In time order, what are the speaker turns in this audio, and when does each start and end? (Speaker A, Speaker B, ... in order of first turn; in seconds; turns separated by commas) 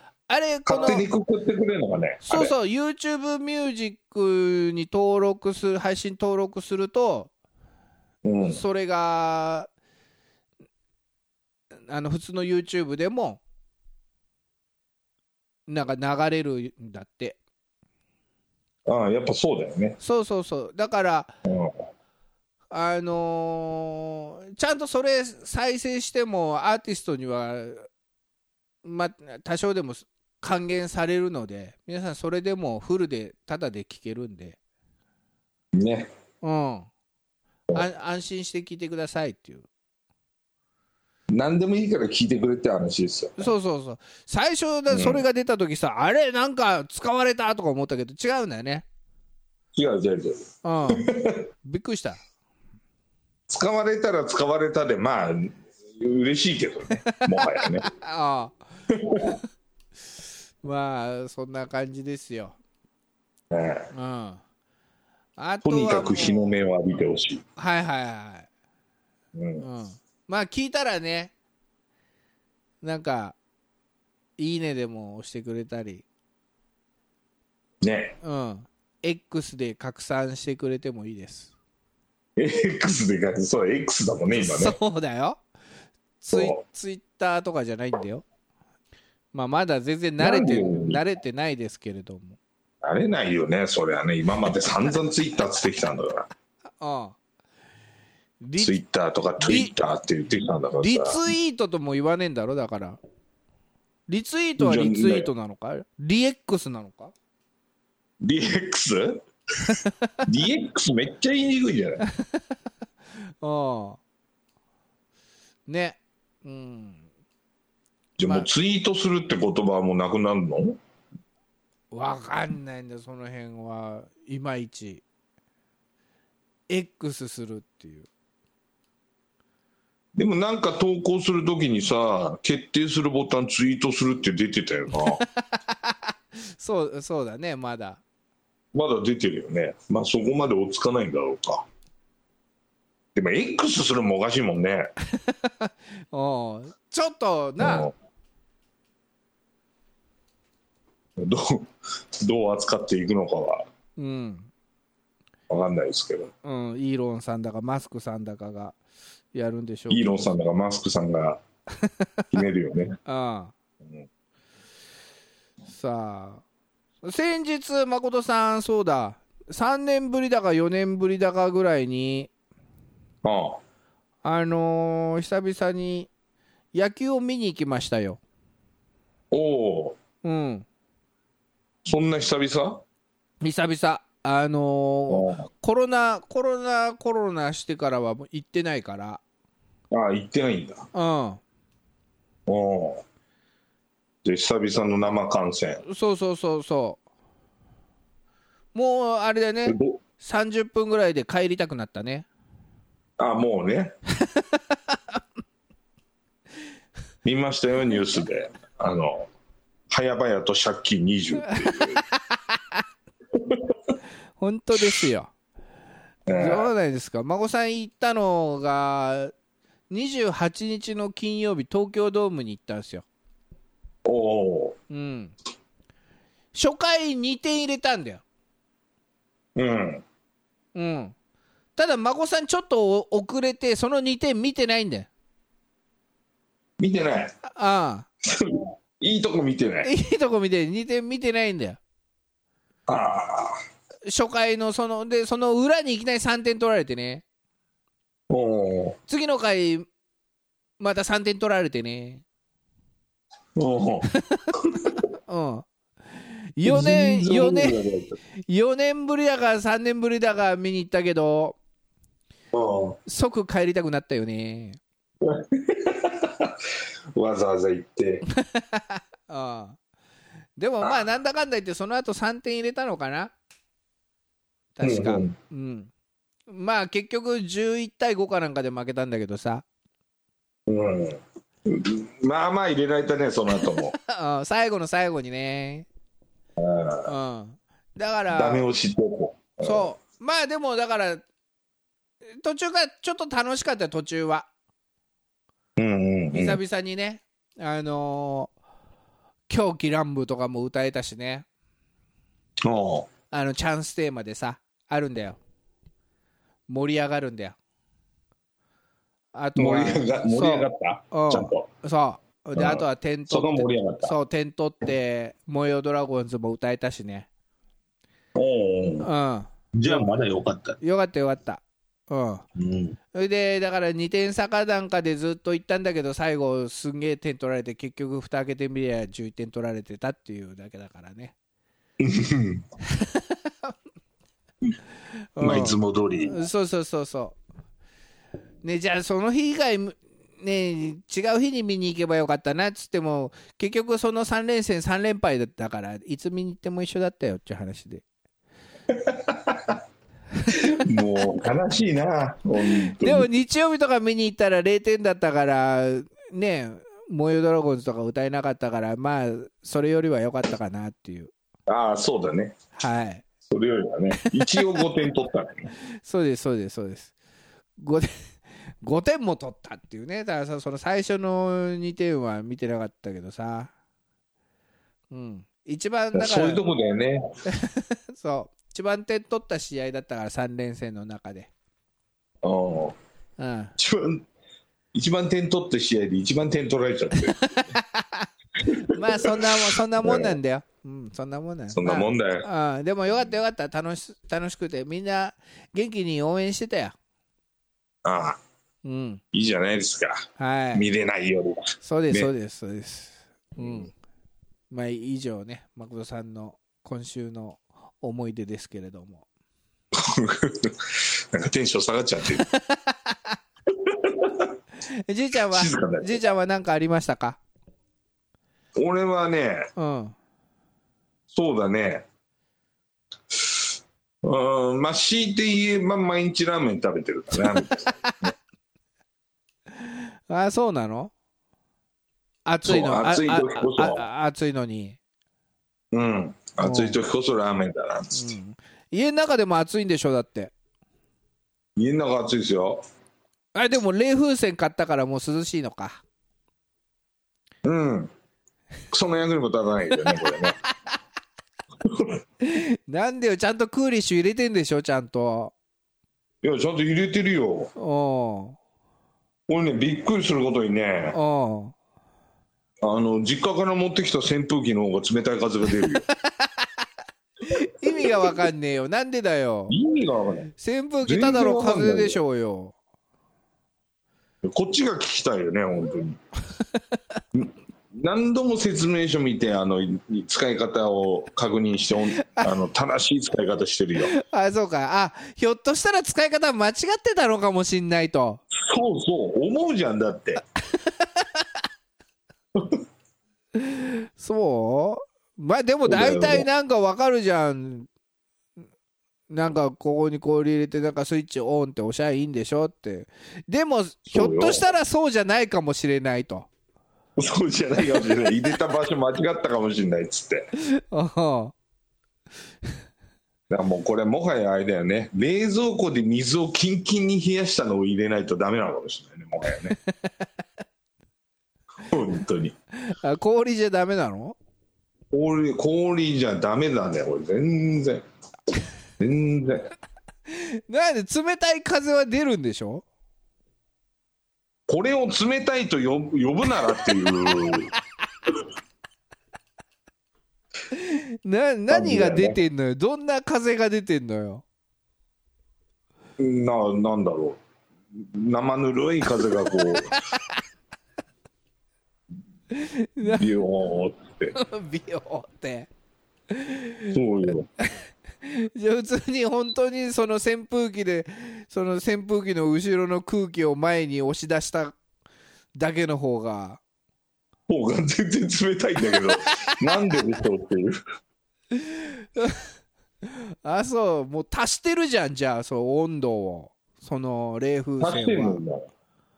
Speaker A: 0.3-1.1, Speaker B: 0.7-2.5, Speaker A: 2.2-7.3, Speaker B: 8.2-8.6, Speaker A: 8.5-9.7, Speaker A: 11.9-13.4, Speaker A: 15.7-17.4, Speaker B: 18.9-20.0, Speaker A: 20.0-21.3, Speaker B: 21.5-21.8, Speaker A: 22.7-27.9, Speaker A: 28.8-34.6, Speaker B: 35.7-36.1, Speaker A: 36.4-36.9, Speaker A: 37.7-39.6, Speaker B: 41.3-43.5, Speaker A: 43.4-48.9, Speaker B: 44.9-45.2, Speaker B: 49.7-51.5, Speaker A: 50.6-51.1, Speaker A: 51.6-52.2, Speaker B: 53.5-57.9, Speaker A: 57.1-58.6, Speaker B: 58.9-59.4, Speaker A: 60.6-62.6, Speaker B: 63.5-63.9, Speaker A: 63.9-64.4, Speaker A: 65.4-66.5, Speaker B: 65.6-67.4, Speaker A: 67.6-68.5, Speaker B: 69.3-69.7, Speaker A: 69.6-71.3, Speaker A: 72.8-73.4, Speaker A: 74.4-76.0, Speaker B: 77.8-78.2, Speaker A: 78.2-81.5, Speaker B: 82.4-84.8, Speaker A: 84.3-85.4, Speaker A: 86.2-88.2, Speaker B: 86.3-86.6, Speaker A: 89.3-92.4, Speaker B: 90.2-91.0, Speaker B: 92.8-96.3, Speaker A: 96.8-97.2, Speaker A: 98.4-98.8, Speaker B: 98.6-101.2, Speaker A: 99.4-99.7, Speaker A: 100.8-103.0, Speaker A: 104.1-107.1, Speaker B: 104.6-105.3, Speaker B: 108.2-109.2, Speaker A: 109.7-110.1, Speaker B: 110.2-112.0, Speaker A: 113.4-114.0, Speaker A: 115.7-117.1, Speaker B: 118.2-120.8, Speaker A: 121.9-125.0, Speaker A: 126.7-128.1, Speaker B: 130.2-135.2, Speaker A: 134.9-138.0, Speaker B: 138.7-141.7, Speaker B: 143.2-144.9, Speaker A: 145.1-147.9, Speaker B: 147.6-147.9, Speaker B: 151.2-153.7, Speaker A: 154.0-154.5, Speaker B: 155.5-156.3, Speaker A: 156.4-158.8, Speaker A: 159.3-160.2, Speaker B: 159.9-161.4, Speaker B: 162.3-163.0, Speaker A: 163.1-163.5, Speaker A: 165.7-166.4, Speaker A: 167.0-172.3, Speaker B: 173.2-173.6, Speaker A: 174.2-176.1, Speaker A: 176.7-178.2, Speaker B: 179.3-180.0, Speaker A: 180.2-180.7, Speaker B: 181.8-182.8, Speaker A: 183.4-189.2, Speaker B: 185.1-185.4, Speaker B: 189.9-190.9, Speaker A: 190.9-191.4, Speaker B: 192.5-193.0, Speaker B: 194.2-195.8, Speaker A: 195.8-197.0, Speaker A: 198.7-202.3, Speaker B: 199.7-200.0, Speaker B: 203.2-203.9, Speaker A: 204.2-205.0, Speaker B: 207.2-209.3, Speaker B: 209.9-212.0, Speaker A: 211.5-212.0, Speaker A: 212.5-212.8, Speaker B: 213.3-213.8, Speaker A: 214.4-215.3, Speaker B: 216.3-216.7, Speaker A: 216.3-219.3, Speaker A: 219.9-223.1, Speaker B: 224.1-224.8, Speaker A: 224.9-225.3, Speaker A: 226.5-228.2, Speaker B: 229.6-230.0, Speaker A: 230.8-231.2, Speaker A: 231.8-235.1, Speaker B: 236.8-237.3, Speaker A: 237.4-238.1, Speaker B: 238.2-239.9, Speaker A: 239.8-241.8, Speaker B: 242.9-243.6, Speaker A: 244.1-247.2, Speaker B: 248.3-249.0, Speaker A: 249.1-249.9, Speaker A: 250.8-252.2, Speaker B: 253.6-254.1, Speaker A: 254.1-254.4, Speaker B: 254.6-254.9, Speaker A: 255.3-255.7, Speaker A: 256.6-257.8, Speaker B: 256.6-258.2, Speaker A: 258.5-261.6, Speaker B: 262.5-263.0, Speaker A: 263.1-264.8, Speaker B: 265.2-266.6, Speaker B: 267.1-268.2, Speaker A: 268.4-269.8, Speaker A: 270.6-273.3, Speaker A: 274.8-275.9, Speaker B: 274.8-275.3, Speaker A: 276.5-279.6, Speaker B: 280.7-283.9, Speaker A: 283.7-285.9, Speaker B: 286.6-287.1, Speaker A: 287.1-288.7, Speaker B: 288.3-289.9, Speaker A: 289.6-291.2, Speaker A: 292.4-294.5, Speaker B: 295.8-296.6, Speaker A: 296.3-298.5, Speaker A: 299.5-301.5, Speaker B: 302.6-303.1, Speaker A: 303.3-305.4, Speaker A: 306.7-307.6, Speaker A: 309.3-317.3, Speaker B: 309.6-311.7, Speaker B: 312.6-314.1, Speaker B: 318.4-319.1, Speaker A: 319.0-320.1, Speaker B: 319.7-320.8, Speaker A: 320.8-322.4, Speaker B: 322.6-323.0, Speaker A: 323.1-331.4, Speaker B: 332.0-332.6, Speaker A: 332.9-333.7, Speaker A: 335.4-337.4, Speaker B: 335.4-336.4, Speaker A: 338.6-348.0, Speaker B: 348.9-349.8, Speaker A: 350.4-350.7, Speaker B: 350.5-353.3, Speaker A: 352.6-361.3, Speaker B: 361.7-362.6, Speaker A: 362.8-363.3, Speaker B: 363.5-365.7, Speaker A: 364.2-364.8, Speaker A: 366.0-367.1, Speaker A: 367.8-373.7, Speaker A: 375.1-376.6, Speaker B: 376.1-377.2, Speaker A: 377.5-381.5, Speaker B: 382.4-383.0, Speaker A: 383.4-383.7, Speaker B: 383.8-384.2, Speaker B: 384.9-387.4, Speaker A: 387.3-397.0, Speaker B: 388.6-390.4, Speaker B: 391.7-392.5, Speaker B: 398.1-398.4, Speaker A: 398.8-399.2, Speaker B: 399.3-400.2, Speaker A: 400.4-400.9, Speaker B: 400.7-402.3, Speaker A: 401.8-403.9, Speaker B: 403.6-403.9, Speaker A: 404.7-409.2, Speaker B: 409.9-412.5, Speaker A: 412.4-413.2, Speaker B: 413.7-414.5, Speaker A: 414.9-417.4, Speaker B: 415.5-416.3, Speaker B: 418.8-419.7, Speaker A: 419.8-420.1, Speaker B: 421.3-422.1, Speaker B: 423.3-423.7, Speaker B: 424.2-428.3, Speaker A: 427.4-428.1, Speaker A: 429.8-431.1, Speaker A: 432.4-435.0, Speaker B: 432.6-434.0, Speaker B: 435.9-438.3, Speaker A: 436.6-437.0, Speaker A: 438.1-440.5, Speaker B: 441.8-442.8, Speaker A: 443.6-446.0, Speaker B: 447.6-448.1, Speaker B: 448.9-450.6, Speaker B: 451.8-452.2, Speaker A: 452.4-455.5, Speaker B: 456.4-457.7, Speaker A: 457.8-458.6, Speaker B: 459.5-461.2, Speaker A: 461.1-461.8, Speaker B: 462.8-466.1, Speaker A: 466.4-466.7, Speaker A: 467.5-469.8, Speaker B: 467.9-468.1, Speaker B: 469.7-470.5, Speaker A: 470.6-472.8, Speaker B: 471.0-472.2, Speaker B: 474.4-476.2, Speaker B: 477.3-484.1, Speaker A: 484.1-488.4, Speaker B: 488.6-490.4, Speaker B: 492.6-492.8, Speaker A: 493.6-497.9, Speaker B: 495.9-496.5, Speaker A: 499.3-506.5, Speaker B: 504.1-504.7, Speaker B: 507.2-510.5, Speaker A: 510.6-511.5, Speaker B: 513.5-519.8, Speaker B: 521.9-522.5, Speaker A: 522.8-524.4, Speaker B: 525.1-528.0, Speaker B: 529.0-529.7, Speaker A: 530.3-532.8, Speaker B: 534.7-537.7, Speaker A: 540.7-544.4, Speaker B: 541.7-542.4, Speaker B: 546.2-547.4, Speaker B: 547.9-549.9, Speaker A: 549.6-550.2, Speaker A: 552.5-553.3, Speaker B: 553.0-554.3, Speaker A: 554.4-555.7, Speaker A: 556.3-557.0, Speaker B: 556.9-557.5, Speaker A: 558.2-564.8, Speaker A: 565.6-566.6, Speaker B: 567.5-570.8, Speaker A: 569.0-569.5, Speaker A: 571.5-572.5, Speaker A: 573.0-578.4, Speaker B: 577.8-578.7